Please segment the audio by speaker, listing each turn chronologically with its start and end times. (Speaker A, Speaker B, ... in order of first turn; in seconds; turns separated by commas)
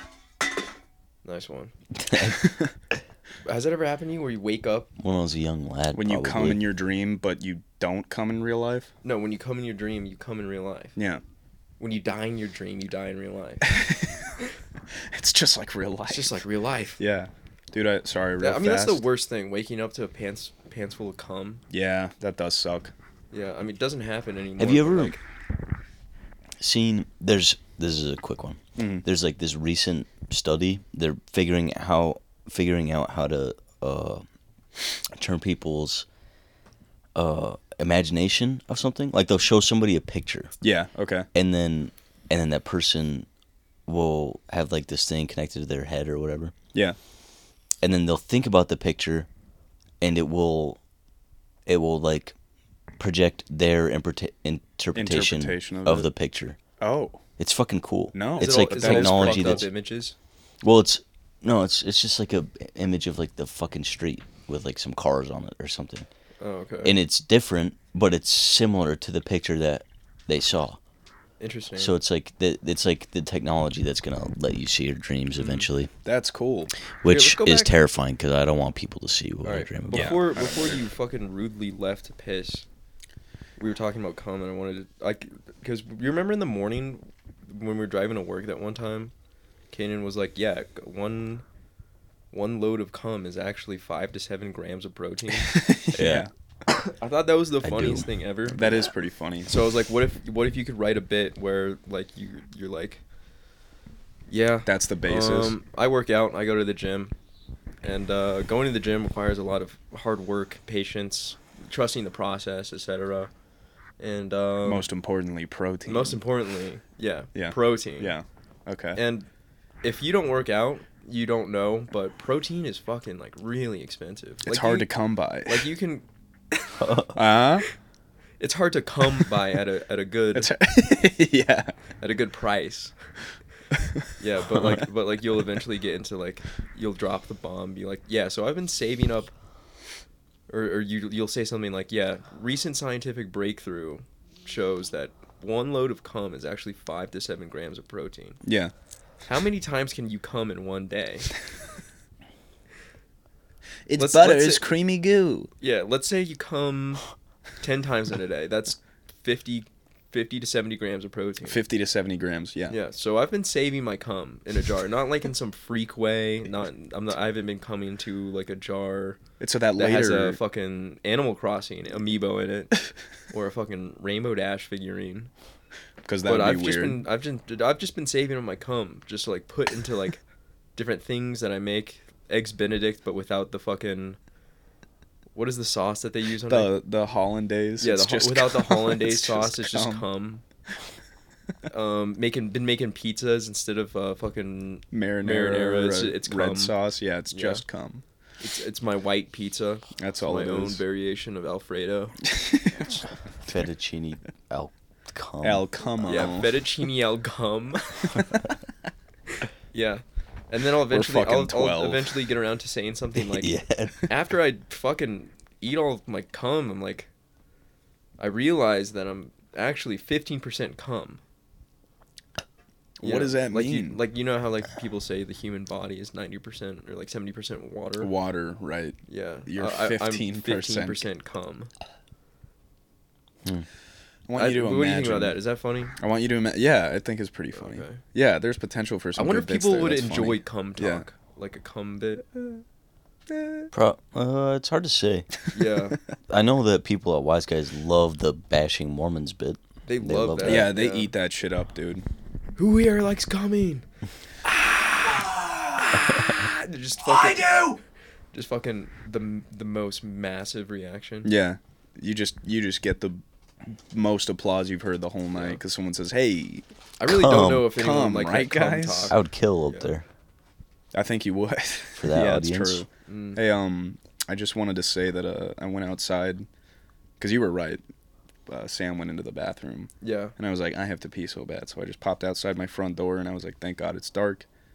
Speaker A: 1.2-1.7, Speaker B: 2.0-2.5, Speaker A: 3.5-4.9, Speaker B: 5.0-6.6, Speaker C: 5.9-8.9, Speaker A: 9.0-10.9, Speaker C: 10.9-11.2, Speaker A: 11.8-13.7, Speaker C: 13.6-14.4, Speaker C: 14.9-16.4, Speaker A: 16.1-17.0, Speaker C: 17.0-19.0, Speaker A: 18.4-21.6, Speaker C: 21.7-22.9, Speaker A: 23.3-25.2, Speaker B: 24.6-25.1, Speaker B: 26.6-34.2, Speaker C: 28.8-29.0, Speaker B: 35.1-36.0, Speaker B: 37.1-40.5, Speaker C: 40.6-41.2, Speaker B: 41.3-43.3, Speaker B: 43.9-46.5, Speaker B: 47.8-49.3, Speaker B: 50.0-50.8, Speaker B: 51.6-52.3, Speaker B: 53.0-56.6, Speaker C: 54.9-56.1, Speaker C: 56.8-57.2, Speaker B: 57.4-59.7, Speaker C: 58.1-59.6, Speaker A: 58.4-60.1, Speaker B: 60.6-66.1, Speaker A: 66.4-67.0, Speaker B: 66.8-70.8, Speaker A: 71.4-71.9, Speaker B: 71.8-75.9, Speaker A: 75.4-75.7, Speaker C: 76.0-76.7, Speaker B: 77.0-80.2, Speaker A: 77.0-77.7, Speaker A: 79.4-82.6, Speaker C: 79.9-80.8, Speaker A: 83.6-89.1, Speaker A: 89.7-91.4, Speaker A: 92.3-95.6, Speaker C: 95.4-96.3, Speaker B: 95.9-96.3, Speaker A: 96.7-98.9, Speaker B: 97.6-98.1, Speaker C: 98.5-99.5, Speaker A: 99.5-103.0, Speaker A: 104.3-107.1, Speaker C: 104.7-105.5, Speaker A: 107.8-113.3, Speaker A: 114.0-114.9, Speaker C: 114.6-116.2, Speaker A: 115.8-118.1, Speaker C: 117.3-119.0, Speaker A: 118.9-119.3, Speaker A: 119.8-124.9, Speaker C: 124.4-125.7, Speaker A: 125.4-126.0, Speaker B: 126.8-127.2, Speaker C: 127.1-127.6, Speaker A: 128.4-130.5, Speaker C: 130.3-131.7, Speaker A: 132.0-132.9, Speaker C: 133.7-134.1, Speaker A: 134.2-139.3, Speaker A: 140.5-148.4, Speaker C: 148.4-148.7, Speaker A: 149.2-151.3, Speaker C: 153.9-155.5, Speaker A: 154.0-154.7, Speaker A: 155.6-157.0, Speaker A: 157.6-161.6, Speaker C: 161.4-162.8, Speaker A: 162.7-169.2, Speaker C: 169.4-170.4, Speaker A: 169.8-175.3, Speaker C: 176.0-177.0, Speaker A: 176.2-180.2, Speaker A: 180.8-184.2, Speaker A: 185.3-186.7, Speaker C: 186.5-190.1, Speaker A: 187.8-190.4, Speaker A: 191.7-196.8, Speaker C: 194.9-198.0, Speaker A: 197.3-197.6, Speaker A: 198.4-202.2, Speaker C: 200.0-200.8, Speaker C: 202.2-202.9, Speaker A: 202.7-203.0, Speaker B: 203.4-205.7, Speaker C: 205.4-206.5, Speaker A: 206.0-208.3, Speaker A: 209.7-217.1, Speaker C: 210.9-212.2, Speaker B: 213.2-214.1, Speaker A: 218.2-221.2, Speaker C: 223.0-224.0, Speaker A: 223.0-228.1, Speaker C: 228.0-231.0, Speaker A: 229.1-231.7, Speaker C: 234.3-235.4, Speaker A: 234.3-235.9, Speaker C: 236.0-241.1, Speaker A: 237.5-238.0, Speaker A: 239.2-242.3, Speaker B: 243.7-245.4, Speaker A: 245.5-246.0, Speaker B: 246.3-250.7, Speaker A: 249.8-251.1, Speaker C: 250.4-252.0, Speaker A: 252.6-253.8, Speaker C: 254.6-256.1, Speaker A: 256.1-257.8, Speaker C: 257.0-257.8, Speaker A: 258.3-261.3, Speaker C: 261.2-266.6, Speaker A: 265.3-265.6, Speaker A: 267.0-269.2, Speaker B: 267.1-267.7, Speaker C: 267.7-269.1, Speaker B: 269.1-270.0, Speaker C: 270.9-276.5, Speaker B: 272.0-272.8, Speaker A: 273.1-273.4, Speaker C: 277.2-277.8, Speaker C: 278.5-284.4, Speaker A: 280.0-280.3